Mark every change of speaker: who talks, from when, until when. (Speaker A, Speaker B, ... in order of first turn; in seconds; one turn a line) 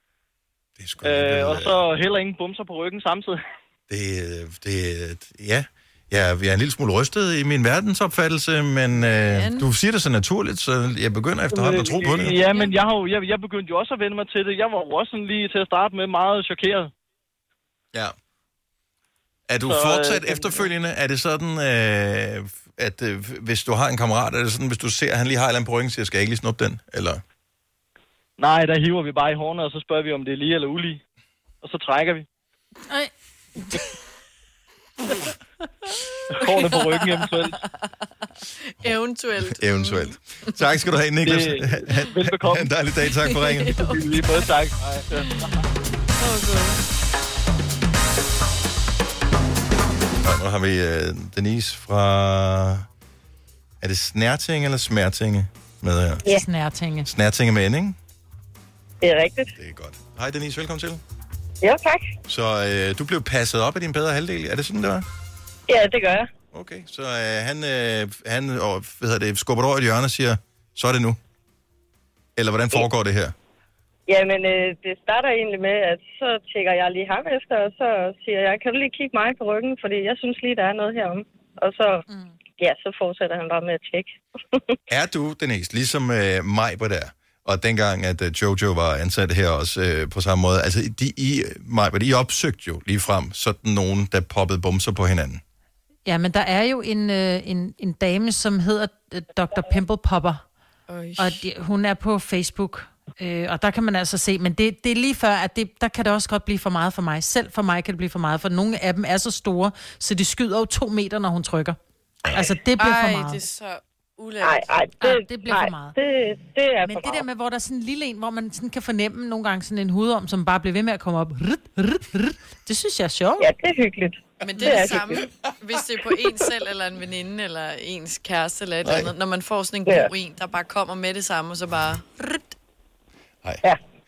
Speaker A: 0.8-1.8
Speaker B: 1.0-3.4
Speaker A: 3.9-12.4
Speaker C: 8.9-9.7
Speaker B: 11.5-16.9
Speaker C: 12.5-12.8
Speaker A: 19.5-27.2
Speaker B: 19.6-20.7
Speaker B: 28.4-31.0
Speaker B: 31.6-32.2
Speaker C: 35.8-40.6
Speaker B: 36.3-37.6
Speaker A: 38.8-43.8
Speaker B: 41.2-42.7
Speaker C: 43.2-44.0
Speaker B: 43.7-45.3
Speaker C: 45.2-45.6
Speaker C: 46.2-46.8
Speaker A: 50.2-52.9
Speaker A: 53.8-56.4
Speaker D: 56.3-57.1
Speaker A: 57.0-58.0
Speaker E: 59.0-59.5
Speaker A: 59.6-61.0
Speaker E: 61.6-62.0
Speaker A: 62.2-65.0
Speaker E: 65.7-66.2
Speaker A: 66.5-71.2
Speaker A: 72.3-73.3
Speaker E: 74.1-82.0
Speaker E: 82.6-84.1
Speaker A: 84.9-95.4
Speaker D: 96.0-100.4
Speaker C: 100.9-101.4
Speaker D: 101.2-111.8
Speaker A: 112.2-112.5
Speaker D: 112.3-113.4
Speaker C: 112.8-114.8
Speaker E: 114.4-117.2
Speaker D: 115.0-116.0
Speaker D: 116.8-123.5
Speaker E: 123.4-125.2
Speaker C: 124.4-132.5
Speaker A: 124.9-125.2
Speaker A: 128.8-129.1